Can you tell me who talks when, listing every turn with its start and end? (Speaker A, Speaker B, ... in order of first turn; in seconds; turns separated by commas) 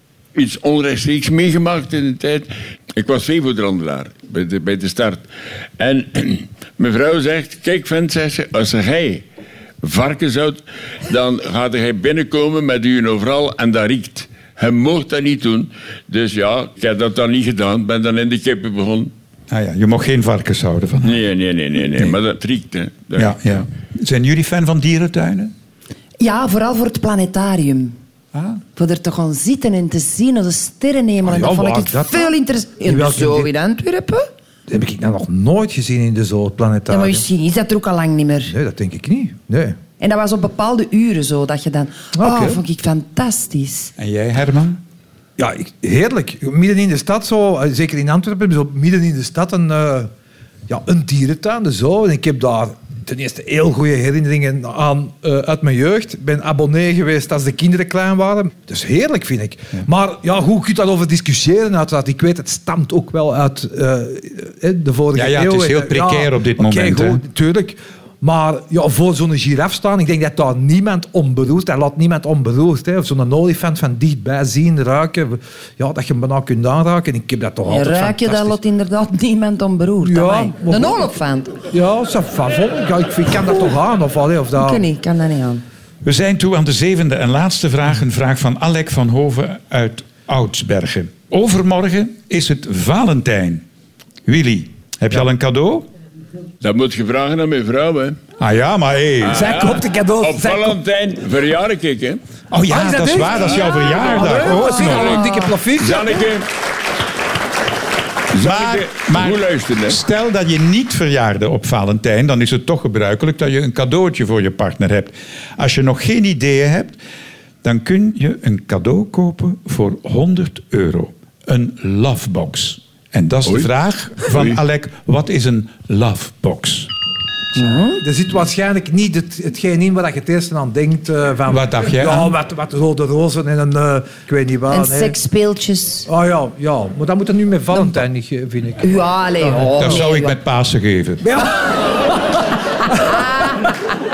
Speaker A: 0.3-5.2, Speaker A: 5.8-9.2, Speaker A: 9.8-19.1, Speaker B: 19.5-21.2, Speaker A: 21.0-23.4, Speaker B: 23.2-25.5, Speaker C: 26.2-28.0, Speaker B: 28.3-28.6, Speaker C: 28.8-34.3, Speaker D: 31.2-32.3, Speaker D: 32.9-33.5, Speaker D: 34.7-37.2, Speaker C: 36.9-38.5, Speaker D: 38.5-39.8, Speaker C: 40.0-43.9, Speaker D: 42.2-42.6, Speaker B: 44.0-44.8, Speaker D: 45.4-50.1, Speaker D: 50.7-78.6, Speaker B: 65.1-67.2, Speaker C: 77.7-81.6, Speaker D: 80.0-81.1, Speaker D: 81.7-84.9, Speaker C: 84.6-85.6, Speaker B: 86.0-93.6, Speaker B: 94.2-95.9, Speaker A: 96.6-98.2, Speaker B: 98.4-99.5, Speaker A: 99.2-102.2, Speaker D: 99.3-100.8, Speaker B: 102.5-105.4, Speaker D: 102.7-106.3, Speaker A: 103.3-106.5, Speaker A: 108.3-110.0, Speaker B: 108.3-117.0, Speaker B: 117.6-126.9, Speaker A: 124.2-124.6, Speaker C: 127.5-128.0, Speaker D: 128.0-135.2, Speaker B: 131.5-132.4, Speaker C: 134.7-136.1, Speaker D: 136.1-139.7, Speaker C: 137.7-138.0, Speaker C: 138.8-140.4, Speaker B: 139.8-141.2, Speaker D: 141.2-142.0, Speaker D: 142.8-143.1, Speaker C: 143.1-143.6